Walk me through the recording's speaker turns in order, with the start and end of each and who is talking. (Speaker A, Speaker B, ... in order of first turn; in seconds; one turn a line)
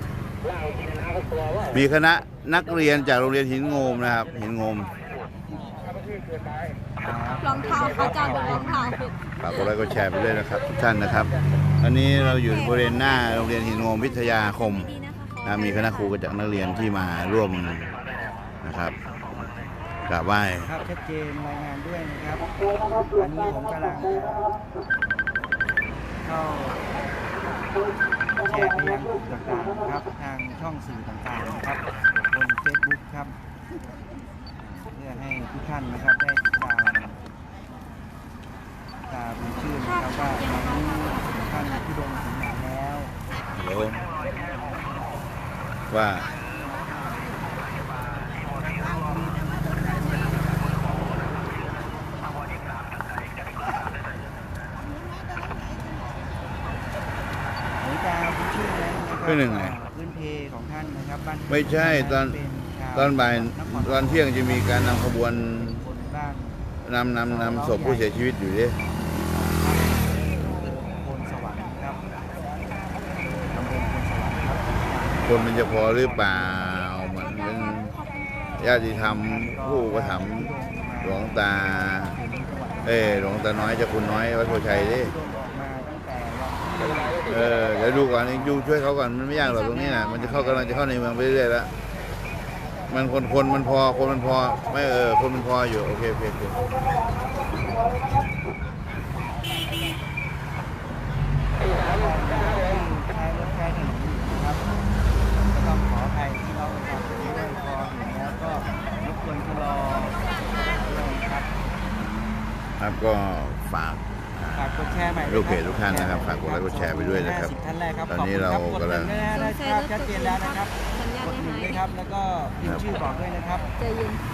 Speaker A: 1.7-4.9
Speaker B: 7.0-9.0
Speaker C: 7.4-9.1
Speaker A: 9.4-14.9
Speaker C: 12.3-16.1
Speaker A: 15.4-17.9
Speaker A: 18.6-19.0
Speaker A: 20.1-20.8
Speaker B: 20.7-22.5
Speaker B: 23.1-24.5
Speaker B: 26.2-26.8
Speaker B: 28.2-33.4
Speaker B: 34.7-37.2
Speaker B: 39.1-43.1
Speaker C: 39.9-41.8
Speaker A: 43.5-44.0
Speaker A: 45.9-46.3
Speaker B: 57.8-66.6
Speaker A: 59.2-59.8
Speaker A: 61.5-65.8
Speaker A: 66.8-68.8
Speaker B: 67.5-68.0
Speaker B: 68.8-72.0
Speaker B: 73.5-75.8
Speaker A: 75.2-77.9
Speaker C: 77.6-78.5
Speaker A: 78.6-82.2
Speaker B: 79.2-81.3
Speaker B: 82.1-82.9
Speaker A: 82.8-85.2
Speaker B: 84.9-87.2
Speaker A: 87.2-91.7
Speaker B: 89.8-90.4
Speaker A: 92.9-96.6
Speaker B: 101.9-104.6
Speaker B: 105.5-111.5
Speaker A: 112.8-117.5
Speaker B: 114.7-120.7
Speaker A: 118.1-119.2
Speaker C: 119.3-121.9
Speaker B: 121.2-123.7
Speaker C: 123.8-124.2